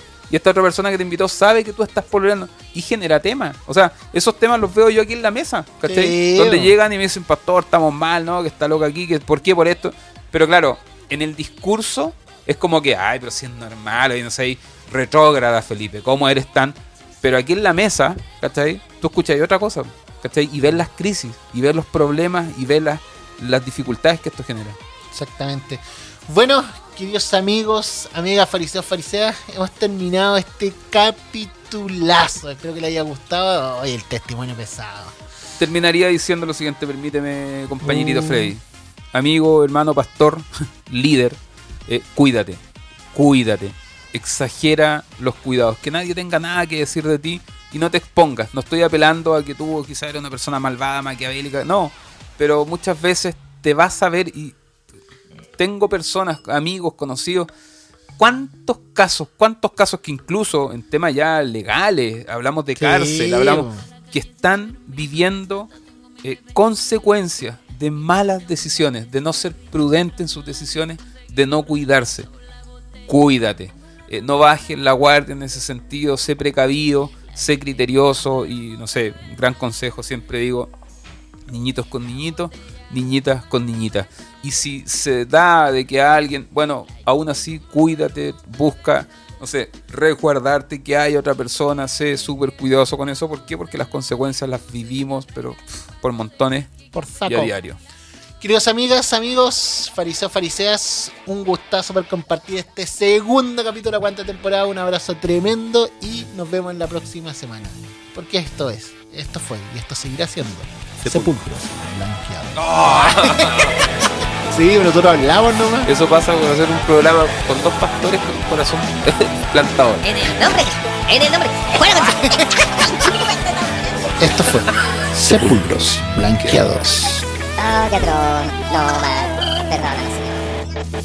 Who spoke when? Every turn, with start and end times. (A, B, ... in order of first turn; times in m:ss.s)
0:00.3-0:24.8 A
0:05.8-0:06.8 B
0:25.1-0:35.2 B
0:35.6-0:38.6 A
0:37.8-0:38.5 B
0:39.1-0:42.6 A
0:43.1-0:54.6 A
0:55.6-0:57.5 A
0:58.2-1:05.7 A
1:02.8-1:03.8 B
1:06.2-1:12.3 A
1:13.1-1:20.7 A
1:21.5-1:36.8 A
1:36.9-1:37.5 B
1:37.3-1:37.8 A
1:38.4-1:53.8 B
1:51.0-1:51.3 A
1:52.6-1:53.9 A
1:54.5-1:55.9 B
1:55.9-2:00.0 A
2:00.0-2:04.2 C
2:04.2-2:07.2 B
2:07.6-2:10.5 C